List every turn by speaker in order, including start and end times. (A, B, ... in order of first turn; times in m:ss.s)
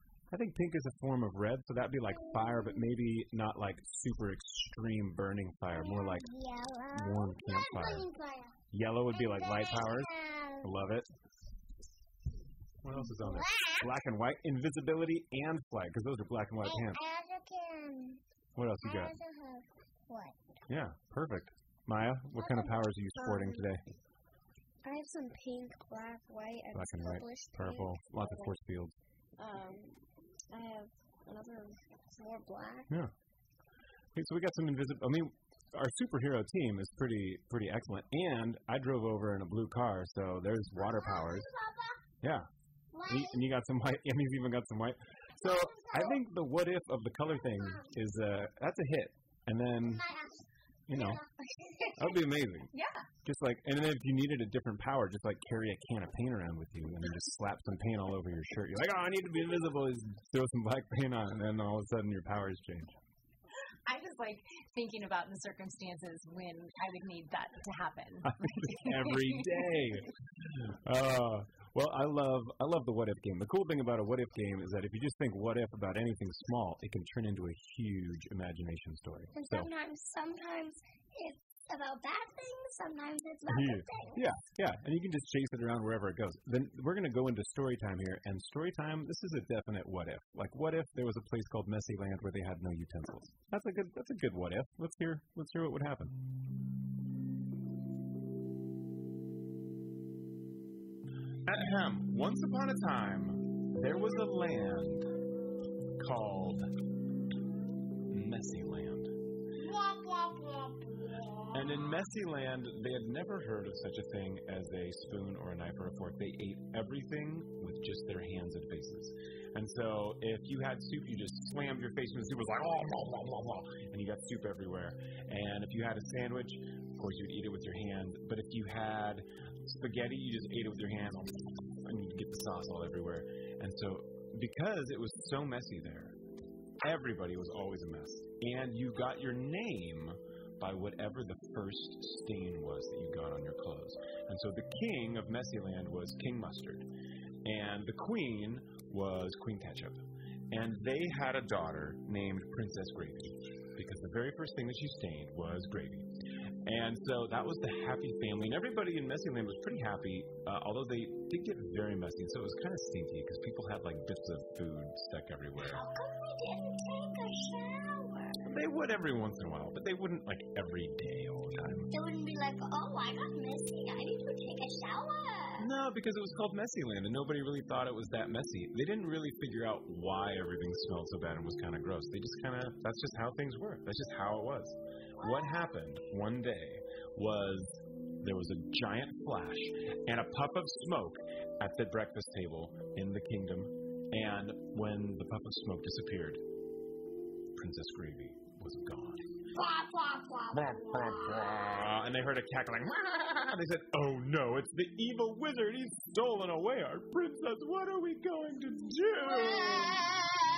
0:00.3-0:06.3 A
0:02.2-0:02.8 B
0:05.7-0:08.5 B
0:06.9-0:08.1 A
0:08.7-0:11.1 A
0:09.1-0:10.7 B
0:12.8-0:17.0 A
0:13.0-0:13.9 B
0:16.6-0:18.2 B
0:18.6-0:19.1 A
0:18.8-0:20.4 B
0:20.7-0:23.8 A
0:23.2-0:23.6 C
0:24.8-0:28.5 C
0:26.7-0:28.9 A
0:29.4-0:32.9 C
0:34.1-0:41.5 A
0:40.8-0:42.0 B
0:42.2-0:42.5 A
0:42.9-0:43.4 B
0:43.1-0:50.1 A
0:45.4-0:46.2 B
0:49.8-0:52.2 B
0:50.9-0:51.2 A
0:52.0-0:52.7 A
0:52.7-0:53.0 D
0:53.2-1:02.9 A
1:03.9-1:09.4 D
1:08.2-1:10.1 A
1:10.7-1:19.7 A
1:19.3-1:24.2 B
1:23.5-1:36.2 A
1:41.4-1:45.1 A
1:46.0-1:46.7 A
1:48.1-1:49.2 A
1:51.5-2:16.2 A
2:16.8-2:26.9 A
2:27.4-2:36.1 A
2:36.6-2:45.8 A
2:45.6-2:48.4 B
2:48.4-2:51.9 A
2:51.9-2:55.7 B
2:55.6-3:16.4 A
3:05.2-3:05.5 B
3:17.6-3:19.2 A
3:19.6-3:20.6 B
3:20.5-3:30.0 A